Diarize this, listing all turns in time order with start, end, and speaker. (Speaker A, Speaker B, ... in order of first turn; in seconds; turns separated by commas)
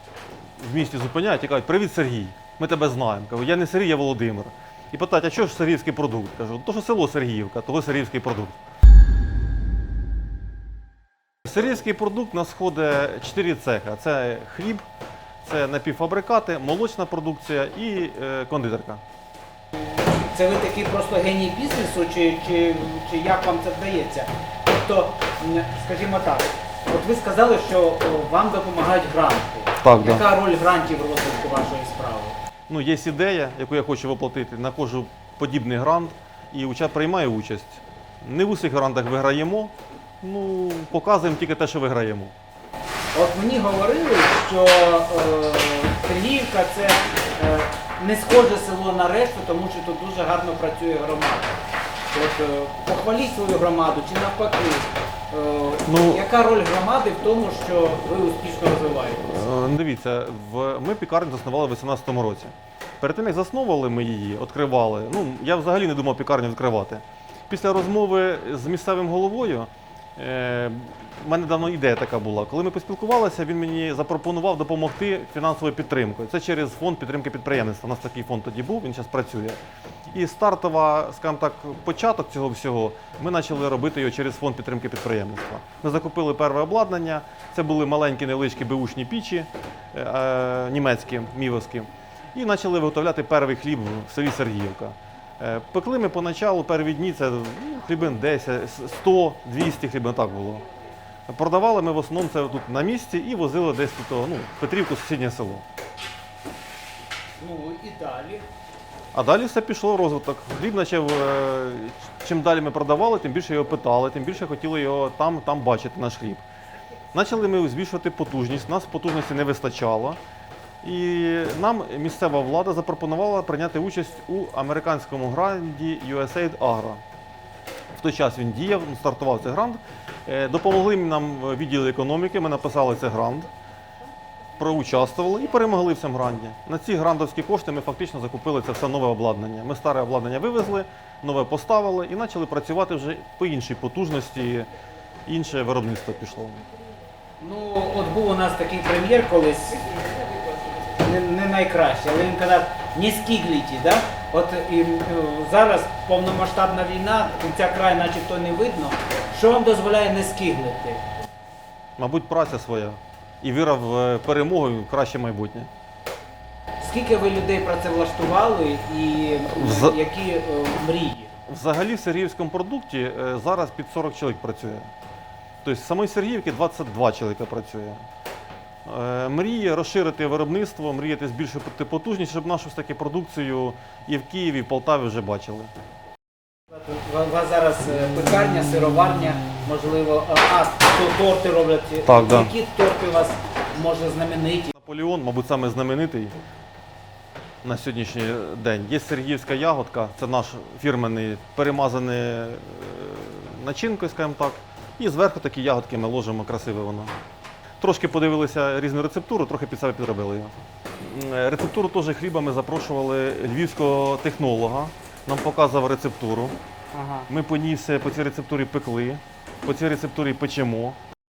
Speaker A: 0.6-8.6, Speaker A: 11.4-14.8, Speaker A: 15.4-19.0, Speaker B: 20.3-32.4, Speaker A: 29.8-30.2, Speaker A: 32.7-42.3, Speaker B: 43.1-51.5, Speaker B: 52.1-59.4, Speaker A: 55.9-56.2, Speaker A: 59.2-79.6, Speaker A: 80.1-100.6, Speaker A: 101.3-105.6, Speaker B: 107.4-108.5, Speaker A: 109.1-116.5, Speaker A: 117.1-120.2, Speaker A: 120.8-127.0, Speaker A: 128.0-133.5, Speaker A: 134.6-144.7, Speaker A: 145.2-146.6, Speaker B: 147.4-150.0, Speaker B: 150.6-161.1, Speaker A: 162.0-165.7, Speaker B: 166.8-171.4, Speaker A: 169.5-170.0, Speaker A: 171.4-174.9, Speaker A: 175.6-178.0, Speaker A: 178.8-185.7, Speaker B: 186.7-194.7, Speaker A: 192.1-192.5, Speaker A: 194.7-196.3, Speaker A: 197.6-207.1, Speaker A: 207.8-216.6, Speaker B: 216.9-217.3, Speaker A: 217.3-221.0